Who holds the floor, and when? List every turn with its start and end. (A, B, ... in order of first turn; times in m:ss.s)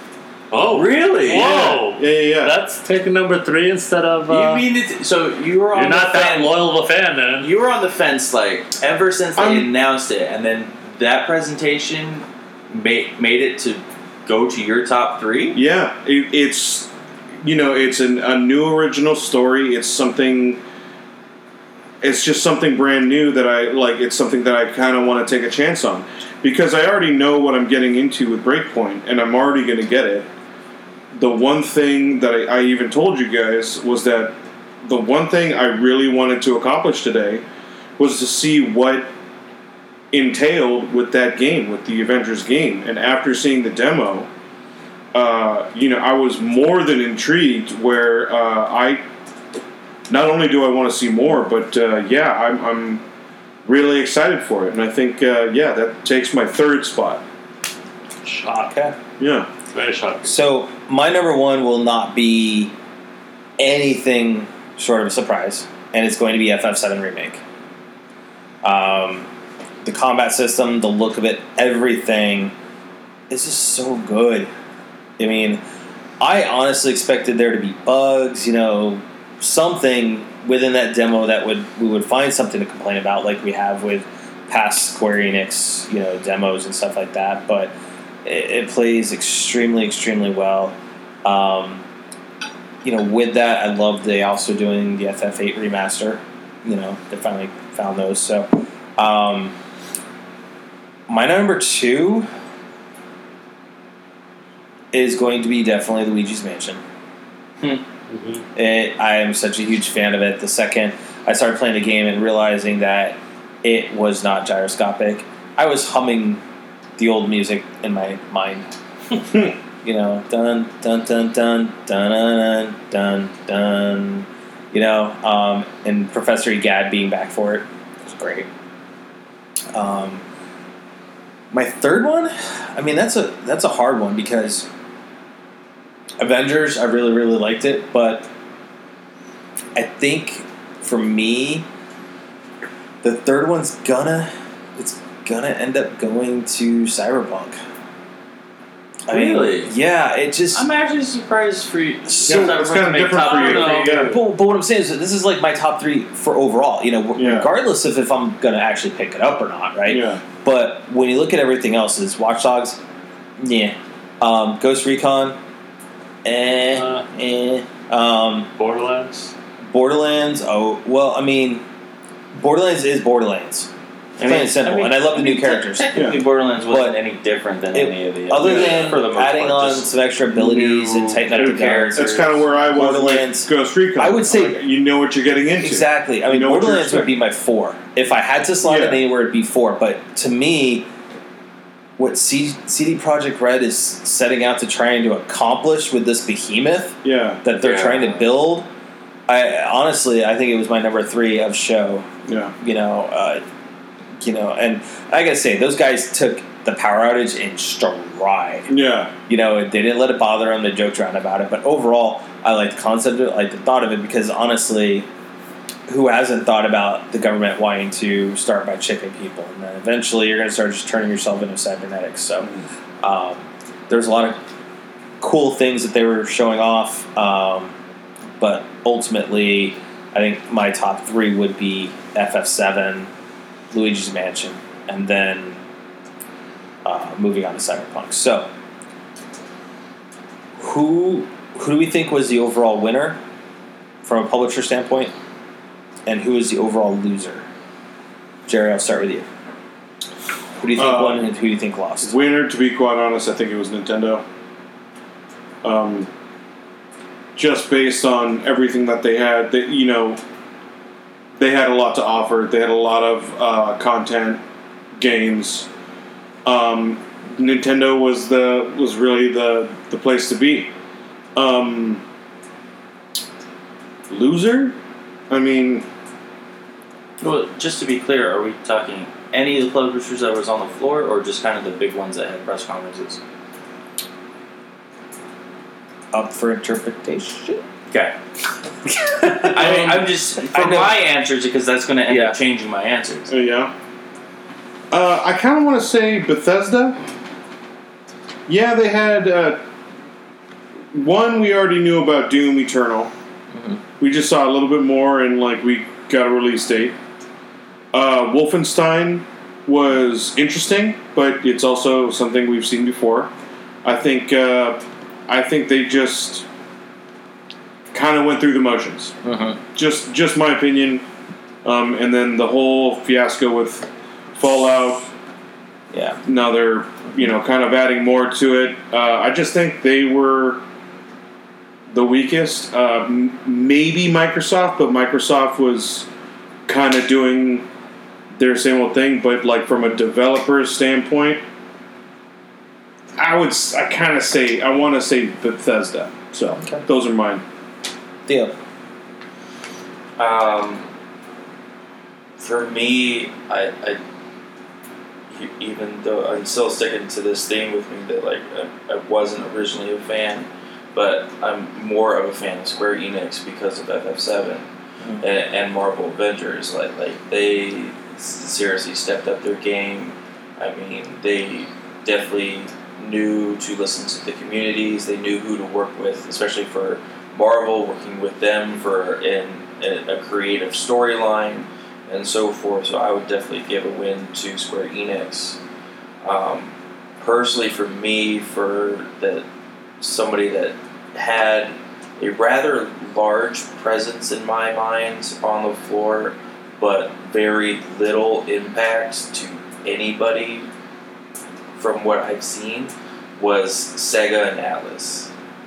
0:00.5-0:04.6 A
0:00.7-0:01.8 B
0:01.3-0:02.5 C
0:04.3-0:06.6 B
0:05.7-0:07.5 A
0:07.4-0:15.6 B
0:09.4-0:09.7 C
0:15.5-0:16.9 C
0:17.4-0:20.6 C
0:22.0-0:30.3 C
0:31.1-0:37.4 C
0:38.0-0:39.1 C
0:40.1-0:44.3 C
0:45.1-0:49.0 C
0:50.1-0:53.0 C
0:53.6-0:57.2 C
0:58.2-0:58.8 A
0:58.7-0:58.9 D
0:59.2-0:59.5 C
0:59.7-1:00.4 A
1:00.2-1:02.7 D
1:03.6-1:07.4 D
1:08.6-1:09.3 D
1:09.8-1:12.5 D
1:13.3-1:14.5 D
1:15.2-1:15.6 D
1:16.2-1:27.7 D
1:28.2-1:31.8 D
1:32.8-1:39.5 D
1:41.1-1:42.3 D
1:44.9-1:46.8 D
1:48.1-1:48.4 A
1:48.5-1:56.4 D
1:57.0-1:58.7 D
1:59.8-2:08.5 D
2:09.7-2:10.2 D
2:11.5-2:14.7 D
2:16.2-2:18.3 D
2:19.7-2:21.6 D
2:23.0-2:27.6 D
2:29.1-2:30.6 D
2:29.1-2:29.7 B
2:30.5-2:34.1 B
2:32.1-2:32.6 D
2:32.2-2:34.2 C
2:33.2-2:42.8 D
2:37.2-2:37.5 C
2:39.9-2:40.2 C
2:43.4-2:45.4 D
2:46.2-2:48.5 D
2:46.7-2:47.0 A
2:48.6-2:49.3 A
2:49.7-2:51.6 D
2:52.3-2:53.7 D
2:54.2-3:02.4 B
2:54.2-2:56.0 D
2:56.7-2:56.9 D
2:57.7-3:04.6 D
2:58.4-2:58.9 C
3:01.3-3:07.1 C
3:05.6-3:10.9 D
3:08.6-3:09.0 C
3:12.0-3:18.7 D
3:17.0-3:17.4 C
3:17.6-3:18.3 B
3:19.3-3:22.0 D
3:22.2-3:22.5 C
3:22.6-3:23.4 D
3:24.2-3:28.7 D
3:28.7-3:29.1 C
3:29.3-3:35.0 D
3:35.9-3:42.5 D
3:43.0-3:44.4 D
3:45.2-3:47.7 D
3:48.4-3:53.1 D
3:53.7-3:55.6 D
3:56.8-3:58.5 D
4:00.6-4:03.2 D
4:04.0-4:05.1 D
4:06.0-4:07.4 D
4:08.5-4:09.3 D
4:10.6-4:12.1 D
4:10.7-4:11.2 C
4:12.0-4:14.2 C
4:15.6-4:16.1 C
4:17.4-4:20.2 C
4:21.4-4:24.4 C
4:25.0-4:25.7 C
4:26.4-4:30.7 C
4:31.3-4:32.0 C
4:34.1-4:34.7 C
4:35.3-4:35.8 C
4:37.2-4:43.2 B
4:46.1-4:47.6 D
4:47.9-4:48.1 B
4:49.0-4:49.8 D
4:49.4-4:53.3 B
4:49.6-4:50.1 C
4:50.4-4:50.9 D
4:52.1-4:52.4 D
4:53.3-4:53.7 C
4:54.9-4:57.0 C
4:58.5-4:59.6 C
5:00.9-5:03.1 C
5:04.0-5:06.9 C
5:07.9-5:13.3 C
5:13.8-5:16.4 C
5:17.9-5:19.1 C
5:19.2-5:19.6 D
5:19.7-5:21.0 C
5:21.6-5:25.1 C
5:25.9-5:26.2 D
5:26.2-5:30.6 C
5:31.9-5:36.1 C
5:36.7-5:37.6 C
5:38.4-5:41.4 C
5:43.2-5:47.4 C
5:48.3-5:48.5 D
5:50.2-5:50.8 B
5:52.4-5:54.0 B
5:55.3-6:04.6 B
6:05.2-6:25.6 B
6:26.2-6:29.4 B
6:30.0-6:40.7 B
6:41.8-6:45.3 B